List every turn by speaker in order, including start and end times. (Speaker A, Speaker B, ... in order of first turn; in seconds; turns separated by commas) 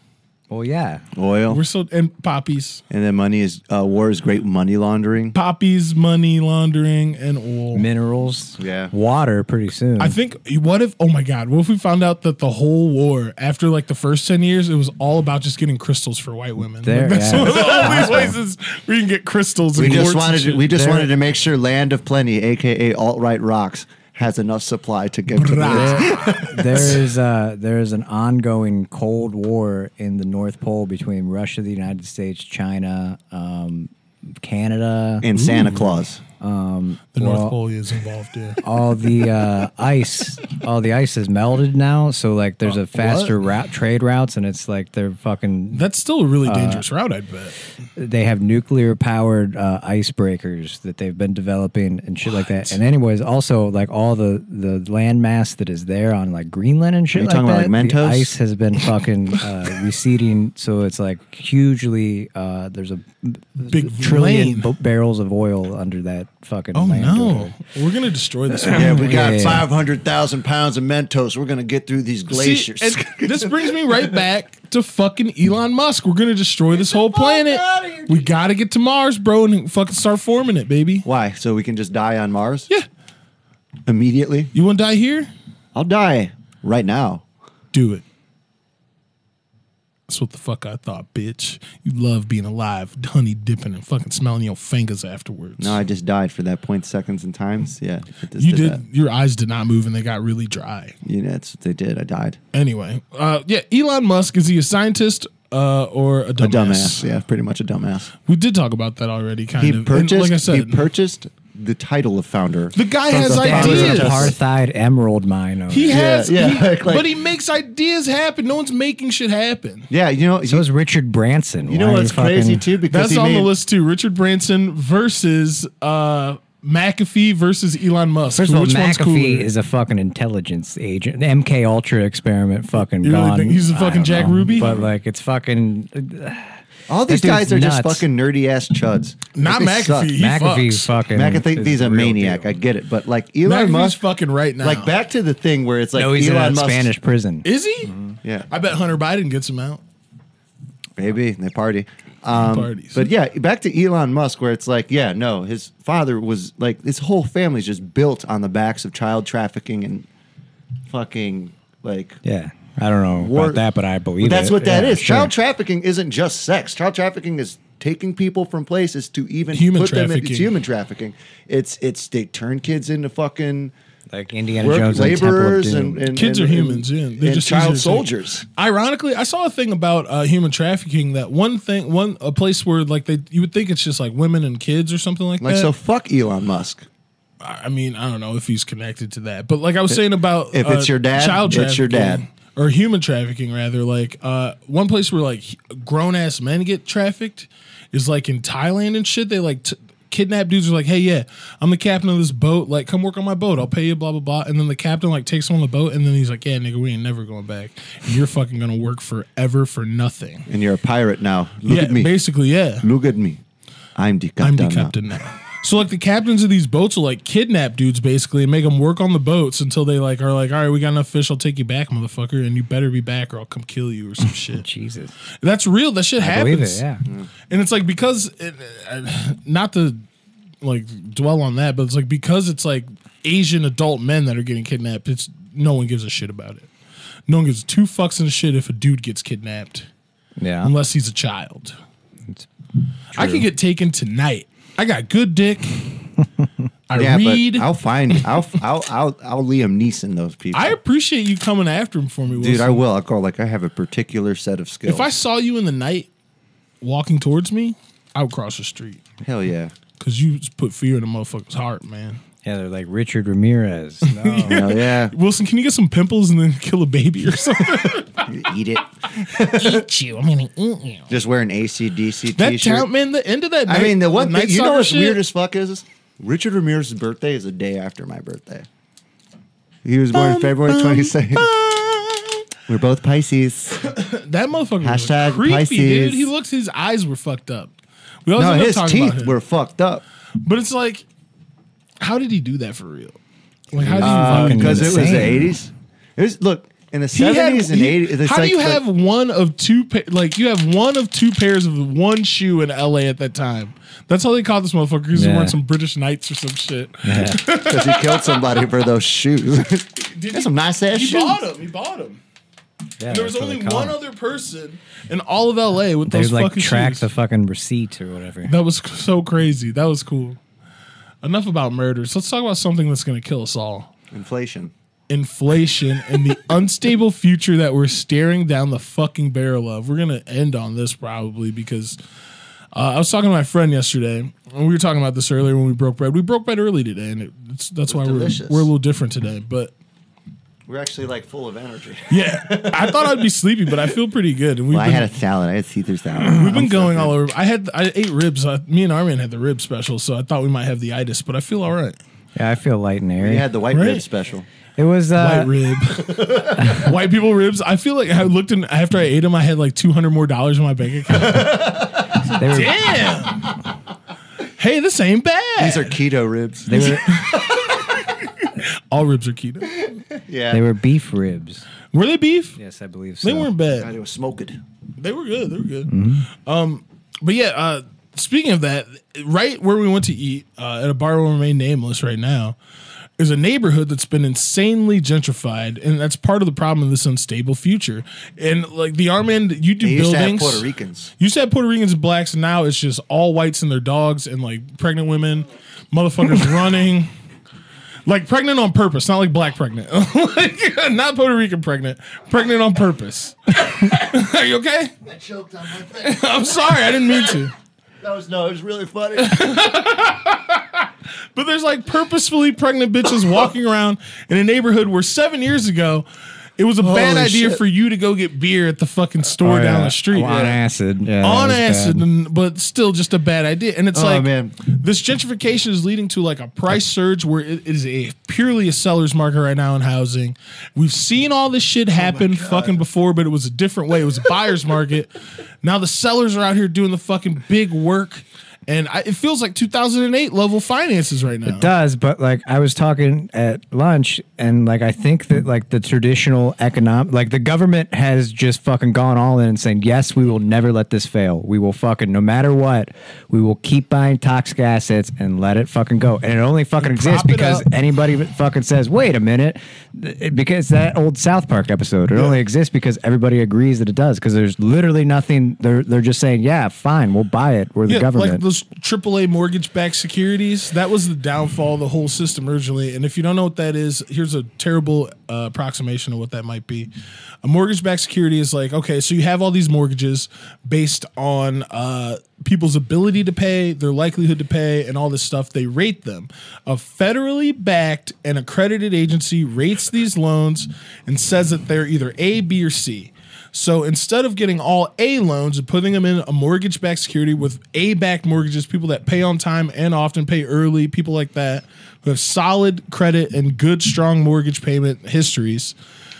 Speaker A: 0.5-1.0, Speaker B: 1.1-1.6, Speaker C: 1.5-2.8, Speaker B: 2.9-5.3, Speaker C: 5.3-7.8, Speaker A: 7.7-10.2, Speaker B: 8.6-8.9, Speaker C: 10.0-21.1, Speaker A: 16.8-18.3, Speaker B: 17.6-18.1, Speaker B: 19.8-27.0, Speaker A: 19.8-20.1, Speaker A: 20.7-21.1, Speaker C: 25.4-27.0, Speaker A: 25.6-35.3, Speaker B: 35.2-36.2, Speaker C: 35.3-36.0, Speaker A: 36.4-37.6, Speaker C: 37.1-38.6, Speaker A: 38.6-45.9, Speaker C: 42.6-43.4, Speaker C: 45.7-47.5, Speaker A: 46.4-46.8, Speaker A: 48.0-67.6, Speaker C: 52.3-52.8, Speaker B: 57.1-58.3, Speaker C: 63.6-64.7, Speaker C: 66.7-69.6, Speaker A: 68.5-69.7, Speaker B: 68.7-74.2, Speaker C: 72.3-81.0, Speaker B: 76.7-78.3, Speaker B: 81.0-82.7, Speaker B: 83.8-84.5, Speaker C: 84.5-85.3, Speaker B: 85.7-87.2, Speaker C: 87.7-88.0, Speaker C: 90.1-95.8, Speaker B: 95.6-98.8, Speaker C: 98.4-100.9, Speaker B: 101.0-102.4, Speaker C: 102.5-107.0, Speaker B: 106.4-108.1, Speaker C: 108.2-110.8, Speaker B: 109.6-114.4, Speaker C: 112.7-114.3, Speaker A: 113.1-116.0, Speaker C: 115.7-119.9, Speaker B: 115.9-117.1, Speaker B: 119.9-120.6, Speaker A: 120.4-122.7, Speaker B: 121.7-123.5, Speaker C: 122.9-129.5, Speaker A: 128.3-138.0, Speaker C: 133.0-134.8, Speaker B: 134.0-134.9, Speaker B: 136.9-140.1, Speaker C: 139.3-140.9, Speaker A: 140.1-142.6, Speaker B: 141.1-144.0, Speaker C: 143.4-144.9, Speaker B: 144.6-146.9, Speaker A: 145.9-148.1, Speaker C: 147.4-147.9, Speaker C: 148.5-149.8, Speaker B: 151.0-160.1, Speaker C: 152.3-153.1, Speaker B: 160.9-162.2, Speaker A: 162.2-165.3, Speaker B: 163.1-163.6, Speaker B: 164.2-173.7, Speaker C: 169.5-170.5, Speaker A: 174.1-176.1, Speaker B: 174.6-178.4, Speaker C: 176.1-185.7, Speaker B: 185.4-186.8, Speaker C: 187.4-210.5, Speaker B: 190.5-192.2, Speaker B: 210.5-212.2, Speaker C: 211.7-212.8, Speaker B: 212.8-213.4, Speaker B: 213.9-214.9, Speaker C: 214.4-224.6, Speaker A: 224.2-225.1, Speaker C: 225.4-226.8, Speaker A: 226.2-227.0, Speaker C: 227.5-230.0, Speaker C: 230.6-236.7, Speaker C: 237.3-239.9, Speaker A: 240.4-240.7, Speaker C: 240.6-241.8, Speaker A: 243.1-243.4, Speaker C: 243.1-245.8, Speaker C: 246.9-248.2, Speaker B: 246.9-250.8, Speaker C: 250.5-252.8, Speaker B: 252.4-255.1, Speaker C: 254.8-256.1, Speaker C: 256.8-259.0, Speaker B: 259.2-259.7, Speaker C: 260.0-262.2, Speaker A: 262.4-264.7, Speaker C: 264.0-268.3, Speaker B: 264.4-265.1, Speaker B: 268.2-269.8, Speaker C: 269.5-271.1, Speaker B: 271.1-272.9, Speaker C: 272.4-275.2, Speaker B: 273.7-278.7, Speaker B: 279.8-281.5, Speaker C: 280.1-282.3, Speaker B: 282.7-283.9, Speaker C: 283.8-287.7, Speaker B: 284.8-286.3, Speaker C: 288.2-289.4, Speaker B: 288.4-290.0, Speaker C: 290.4-291.0, Speaker C: 292.0-293.2, Speaker C: 293.7-295.3, Speaker A: 293.8-295.5, Speaker B: 293.8-298.8, Speaker C: 297.1-308.4, Speaker A: 305.1-305.6, Speaker A: 307.0-307.4, Speaker B: 307.6-311.4, Speaker C: 310.1-312.2, Speaker A: 313.0-314.0, Speaker C: 313.1-317.1, Speaker A: 316.1-318.5, Speaker C: 318.4-320.4, Speaker C: 321.2-323.9, Speaker B: 324.1-324.7, Speaker C: 325.1-332.0, Speaker C: 332.7-339.7, Speaker B: 337.9-338.7, Speaker B: 340.7-343.2, Speaker C: 342.1-345.1, Speaker B: 344.7-347.2, Speaker C: 346.1-352.0, Speaker A: 352.3-353.5, Speaker B: 353.2-354.5, Speaker C: 353.7-354.0, Speaker A: 354.8-355.5, Speaker C: 355.1-363.5, Speaker B: 356.1-356.6, Speaker A: 356.6-356.9, Speaker A: 362.2-362.8, Speaker C: 364.6-365.9, Speaker B: 365.6-368.1, Speaker A: 366.6-367.0, Speaker C: 366.7-367.4, Speaker C: 368.4-369.7, Speaker B: 370.2-370.6, Speaker A: 370.5-371.6, Speaker C: 371.9-372.6, Speaker A: 372.6-373.5, Speaker C: 373.2-373.9, Speaker B: 373.8-374.6, Speaker C: 375.0-375.9, Speaker A: 375.9-376.3, Speaker C: 376.4-382.6, Speaker C: 383.2-390.6, Speaker B: 389.8-391.1, Speaker C: 391.2-397.1, Speaker C: 398.1-404.9, Speaker B: 405.1-407.4, Speaker C: 405.9-407.5, Speaker B: 408.0-409.6, Speaker C: 409.2-416.1, Speaker C: 416.6-420.6, Speaker B: 416.8-417.6, Speaker A: 419.4-422.1, Speaker B: 420.2-420.6, Speaker C: 421.2-435.1, Speaker B: 423.9-424.6, Speaker B: 431.9-432.8, Speaker C: 435.6-441.7, Speaker A: 441.4-468.4, Speaker C: 456.8-457.6, Speaker C: 467.9-476.9, Speaker C: 477.4-505.8